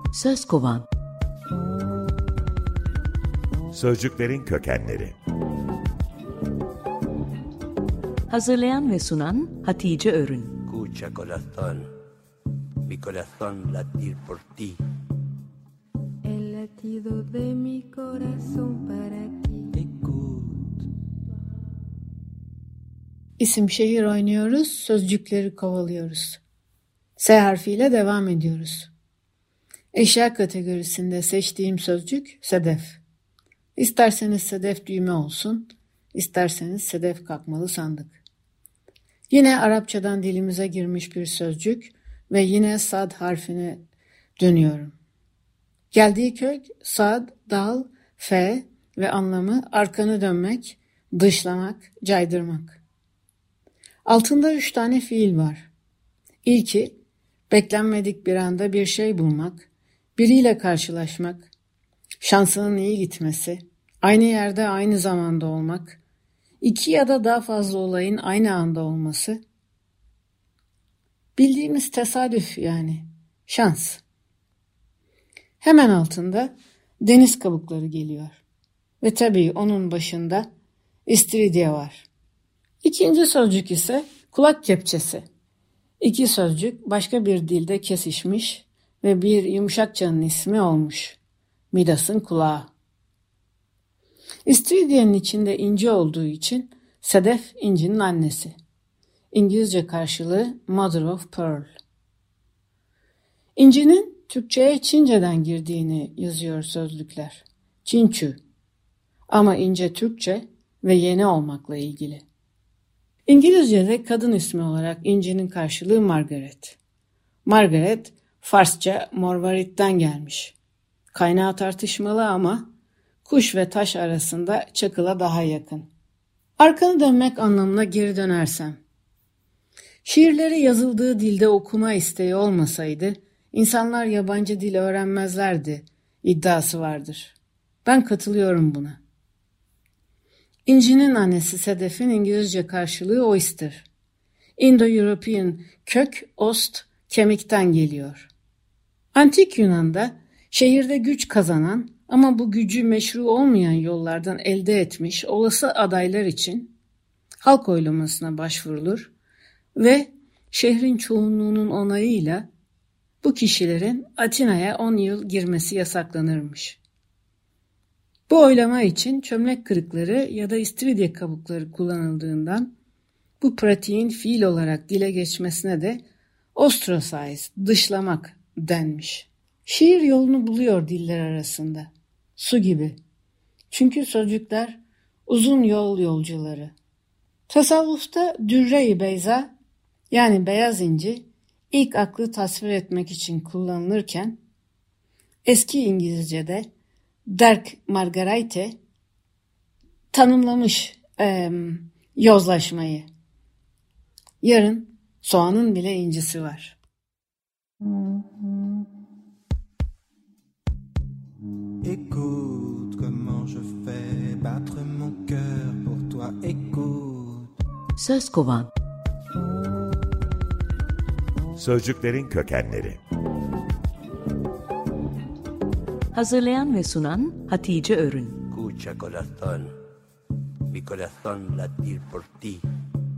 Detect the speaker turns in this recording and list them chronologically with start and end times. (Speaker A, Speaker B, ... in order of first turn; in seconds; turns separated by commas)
Speaker A: 0.1-0.8, Speaker B: 3.7-5.1, Speaker A: 8.3-10.5, Speaker C: 10.6-11.9, Speaker C: 12.8-14.8, Speaker D: 16.2-19.7, Speaker E: 19.8-20.7, Speaker F: 23.4-26.4, Speaker F: 27.2-28.9, Speaker F: 29.9-33.0, Speaker F: 33.8-38.2, Speaker F: 39.3-43.8, Speaker F: 44.4-45.0, Speaker F: 45.9-52.8, Speaker F: 54.0-55.7, Speaker F: 56.4-57.0, Speaker F: 57.5-61.5, Speaker F: 62.2-66.0, Speaker F: 66.6-69.4, Speaker F: 71.3-74.0, Speaker F: 75.6-78.4, Speaker F: 79.0-80.5, Speaker F: 81.1-82.0, Speaker F: 82.8-85.2, Speaker F: 86.0-91.2, Speaker F: 91.7-92.7, Speaker F: 94.4-98.5, Speaker F: 99.3-101.7, Speaker F: 103.5-108.4, Speaker F: 109.3-112.2, Speaker F: 113.3-116.8, Speaker F: 117.4-120.5, Speaker F: 121.1-122.7, Speaker F: 123.2-125.9, Speaker F: 126.6-128.8, Speaker F: 130.0-139.0, Speaker F: 140.7-143.9, Speaker F: 144.6-148.3, Speaker F: 149.1-156.7, Speaker F: 157.4-159.1, Speaker F: 159.8-162.4, Speaker F: 163.2-166.8, Speaker F: 168.3-172.7, Speaker F: 173.4-176.0, Speaker F: 176.5-183.0, Speaker F: 183.7-186.7, Speaker F: 187.5-189.5, Speaker F: 190.1-194.4, Speaker F: 195.4-196.7, Speaker F: 197.3-198.8, Speaker F: 200.1-203.1, Speaker F: 204.4-206.8, Speaker E: 211.8-217.5, Speaker A: 218.0-218.7, Speaker B: 221.6-223.0, Speaker A: 226.1-228.4, Speaker C: 228.4-229.7, Speaker C: 230.7-232.6